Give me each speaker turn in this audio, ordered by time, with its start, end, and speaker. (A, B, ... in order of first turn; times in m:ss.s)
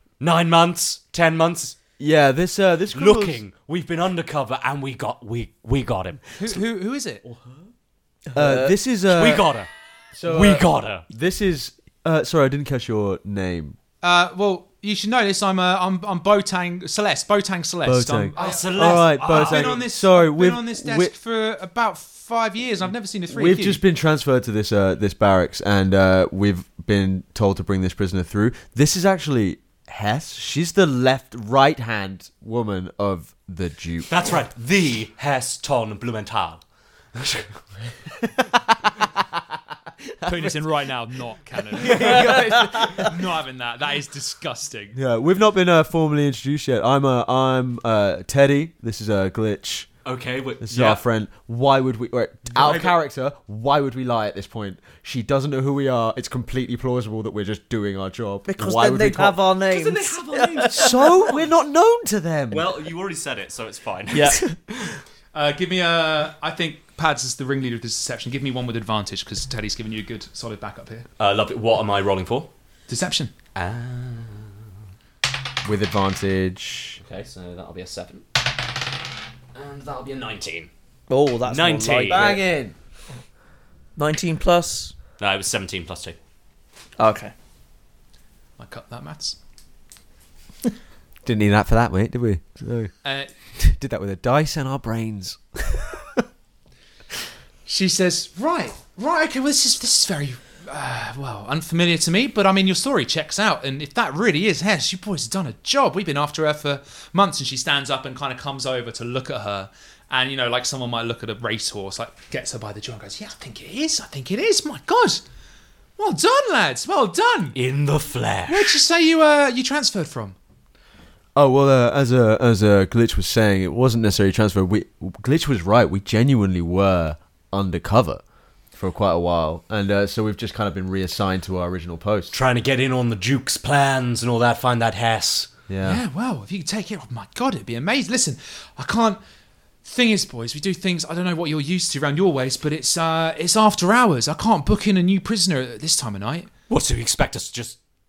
0:00.2-0:01.8 A
0:02.0-0:03.4 B
0:02.9-0:06.4 A
0:06.4-0:07.2 C
0:08.3-0:08.7 D
0:08.3-0:09.5 B
0:09.1-0:09.7 A
0:10.1-0:13.8 B
0:10.2-0:11.0 A
0:14.0-0:23.8 C
0:17.8-0:21.1 B
0:18.4-0:19.8 A
0:23.3-0:34.1 B
0:34.1-0:36.6 A
0:37.1-0:37.6 A
0:38.1-0:39.4 B
0:40.2-0:40.6 B
0:40.2-0:45.0 C
0:41.7-0:43.2 B
0:44.9-0:49.9 B
0:50.0-0:51.0 A
0:50.6-0:59.4 B
0:52.5-0:53.0 A
0:58.5-1:01.2 D
0:59.6-1:01.5 A
1:00.7-1:02.7 B
1:02.5-1:05.0 A
1:04.1-1:04.5 D
1:05.3-1:11.1 C
1:11.2-1:12.5 A
1:12.9-1:13.3 C
1:13.5-1:14.6 A
1:15.6-1:17.0 B
1:17.0-1:18.4 A
1:19.5-1:20.7 A
1:21.1-1:22.4 D
1:21.4-1:22.4 A
1:22.1-1:22.7 B
1:24.0-1:24.9 D
1:25.2-1:26.2 A
1:27.0-1:27.3 D
1:28.6-1:29.4 C
1:31.2-1:32.9 B
1:33.0-1:33.3 C
1:33.6-1:36.2 B
1:37.6-1:55.2 C
1:56.0-1:57.6 C
1:57.5-1:58.7 A
1:58.5-2:00.4 C
2:01.3-2:08.2 B
2:08.7-2:12.3 B
2:12.3-2:15.5 A
2:15.7-2:16.0 B
2:15.8-2:19.2 C
2:19.8-2:26.5 C
2:26.7-2:27.8 A